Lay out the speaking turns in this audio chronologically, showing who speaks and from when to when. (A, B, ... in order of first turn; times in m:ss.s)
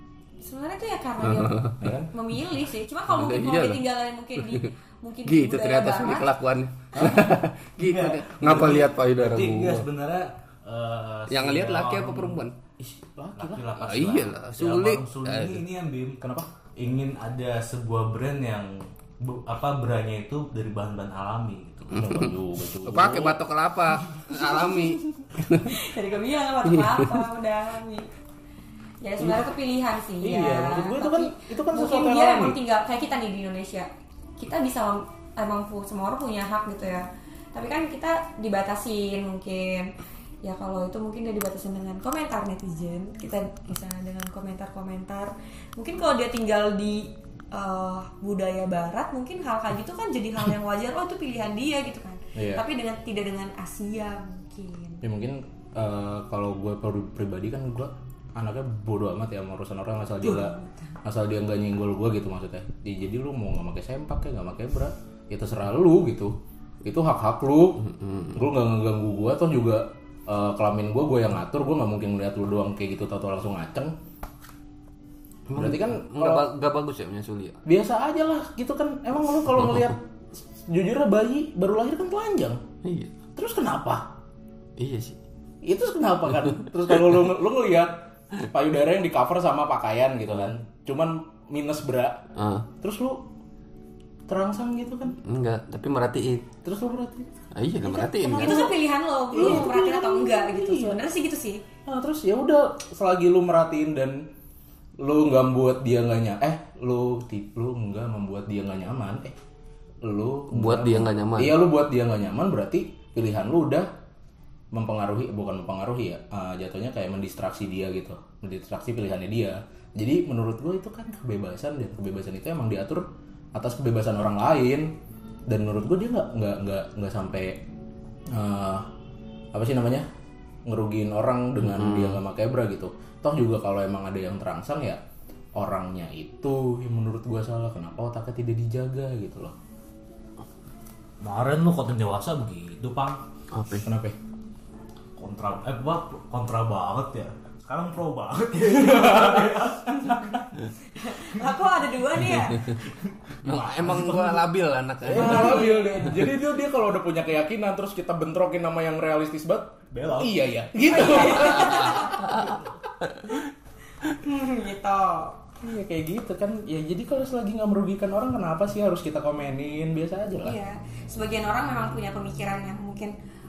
0:00.4-0:06.3 A
0:01.2-0:01.7 B
0:01.8-0:02.1 C
0:03.1-0:04.7 B
0:05.2-0:09.9 B
0:07.0-0:12.4 D
0:11.3-0:12.5 B
0:12.8-0:13.9 C
0:13.4-0:16.2 D
0:13.8-0:15.6 B
0:16.2-0:16.5 C
0:16.8-0:22.2 D
0:21.9-0:23.4 C
0:22.0-0:22.3 B
0:22.8-0:25.8 B
0:24.3-0:28.1 A
0:29.0-0:39.9 A
0:29.2-0:29.5 C
0:30.2-0:32.6 C
0:40.4-0:55.0 A
0:52.3-0:52.6 C
0:55.0-1:13.9 C
1:00.2-1:00.9 A
1:07.9-1:08.3 B
1:15.5-1:17.6 B
1:15.5-1:16.5 C
1:17.6-1:22.6 C
1:22.8-1:23.1 B
1:23.4-1:24.1 C
1:24.8-1:25.2 B
1:25.6-1:32.2 C
1:32.4-1:32.7 B
1:32.8-1:33.2 C
1:34.3-1:35.2 C
1:35.2-1:36.5 B
1:36.6-1:37.3 C
1:37.5-1:38.7 B
1:37.9-1:38.8 C
1:37.9-1:41.6 A
1:39.3-1:41.0 C
1:41.8-1:44.3 C
1:45.0-1:49.4 C
1:50.0-1:53.9 C
1:50.5-1:51.6 B
1:54.7-2:04.9 C
2:05.5-2:07.6 C
2:08.3-2:08.9 C
2:09.5-2:10.1 C
2:10.6-2:15.0 C
2:11.7-2:12.2 B
2:15.6-2:19.5 C
2:21.2-2:23.2 D
2:23.5-2:23.9 B
2:23.8-2:24.2 C
2:25.2-2:30.4 D
2:28.8-2:29.6 C
2:30.9-2:32.8 A
2:32.9-2:34.4 D
2:33.4-2:35.7 B
2:35.0-2:42.6 C
2:35.1-2:36.1 A
2:39.9-2:40.4 D
2:40.8-2:42.4 A
2:44.1-2:45.4 A
2:45.6-2:50.6 C
2:50.4-2:53.1 A